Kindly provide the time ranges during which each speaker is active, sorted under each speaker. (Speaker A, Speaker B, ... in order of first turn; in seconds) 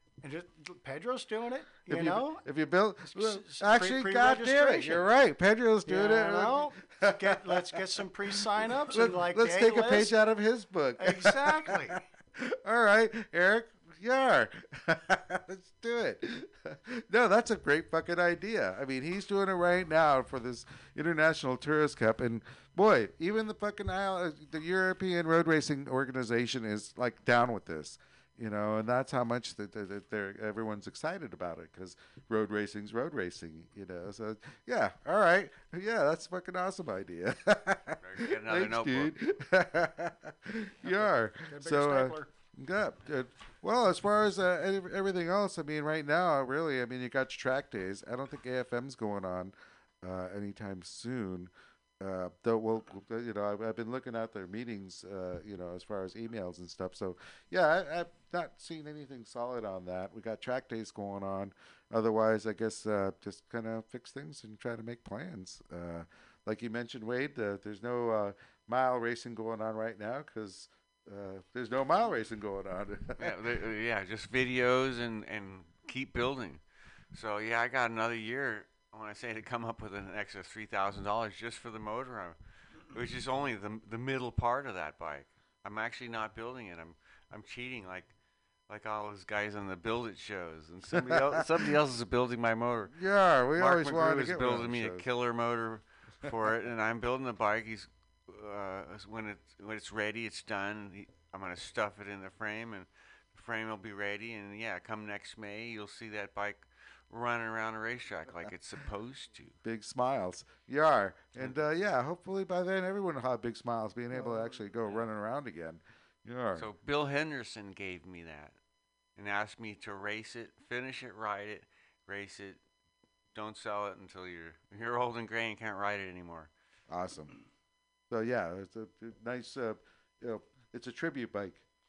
Speaker A: 0.2-2.5, 3.0-5.1, 5.8-10.2, 11.0-12.0, 40.8-42.3
Speaker B: 1.9-73.4, 90.9-91.7, 92.9-95.0, 109.6-116.7, 126.9-127.4, 128.1-131.6
Speaker C: 38.0-39.1, 73.2-76.6, 77.1-82.4, 82.9-88.1, 88.7-92.9, 93.5-109.6, 116.5-118.6, 119.2-122.6, 123.3-126.5